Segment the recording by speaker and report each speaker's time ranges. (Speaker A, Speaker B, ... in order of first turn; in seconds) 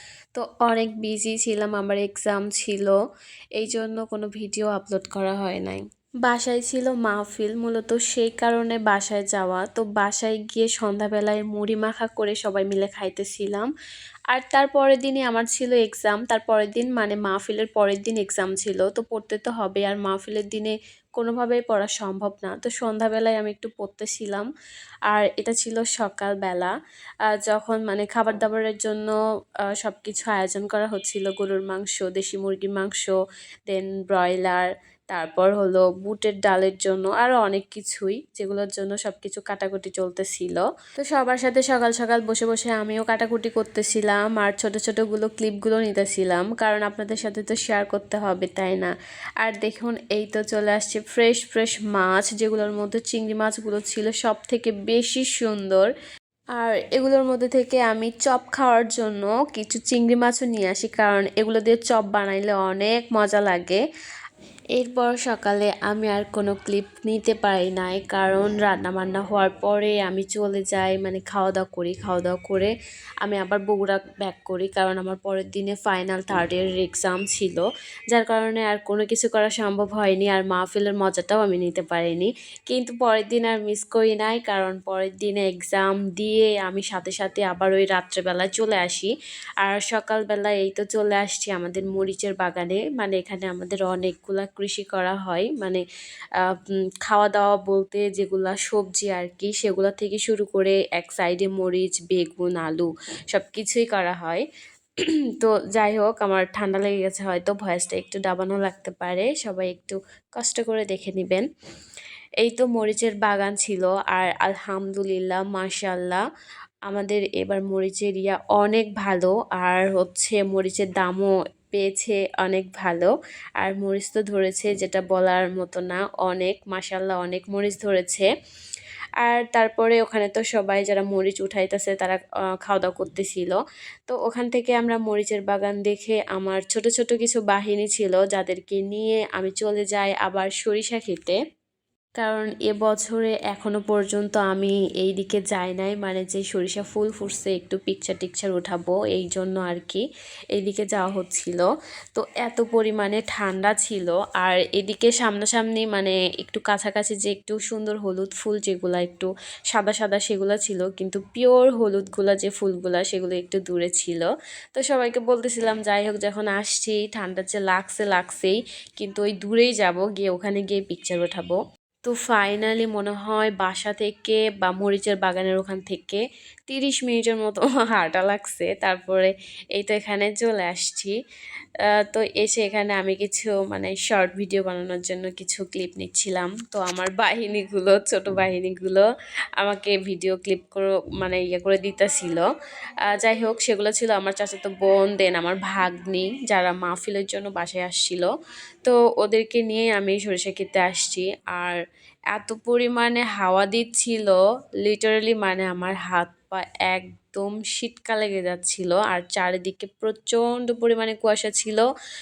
Speaker A: 0.3-3.0, 3.6-13.7, 14.3-24.4, 25.1-26.7, 27.3-29.1, 29.8-33.1, 33.7-55.9, 56.6-63.8, 64.8-72.7, 73.2-95.8, 96.4-104.4, 105.0-111.4, 112.4-116.2, 116.9-128.3, 129.2-141.4, 142.2-181.1, 182.0-189.0, 189.6-192.4, 193.1-198.3, 198.8-201.8, 202.3-211.8